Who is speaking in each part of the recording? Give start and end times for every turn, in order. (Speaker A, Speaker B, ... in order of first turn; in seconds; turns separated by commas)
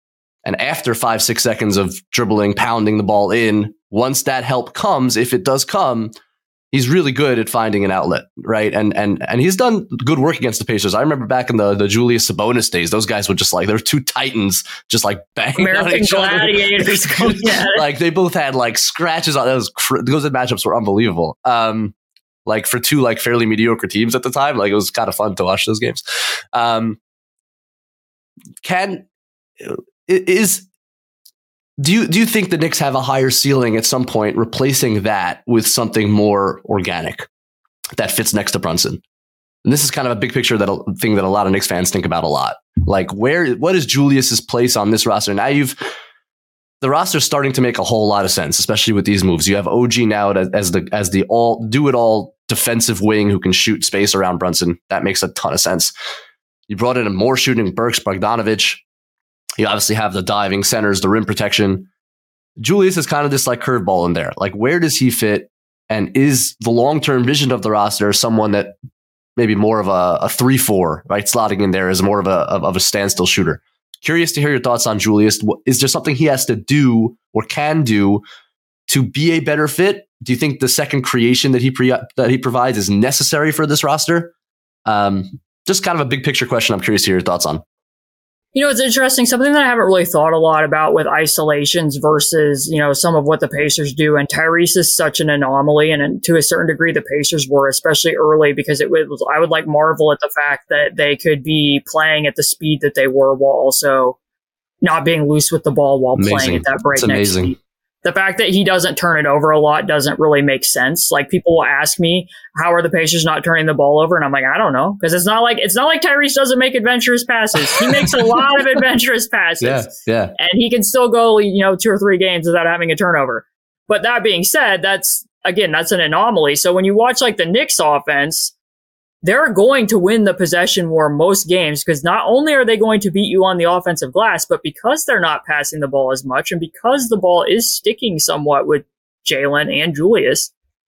Speaker A: 0.4-6.1, Speaker A: 6.7-21.9, Speaker B: 15.6-17.8, Speaker A: 22.5-26.0, Speaker A: 26.5-27.0, Speaker A: 28.6-29.1, Speaker A: 29.6-30.7, Speaker A: 31.8-37.3, Speaker A: 38.0-39.0, Speaker A: 39.6-45.8, Speaker A: 46.8-55.9, Speaker A: 56.7-58.8, Speaker A: 59.6-61.9, Speaker A: 62.6-68.8, Speaker A: 69.4-78.2, Speaker A: 78.9-84.3, Speaker A: 84.9-87.6, Speaker B: 88.5-104.2, Speaker B: 104.8-128.5, Speaker A: 106.2-107.5, Speaker A: 119.6-120.3, Speaker B: 129.2-140.5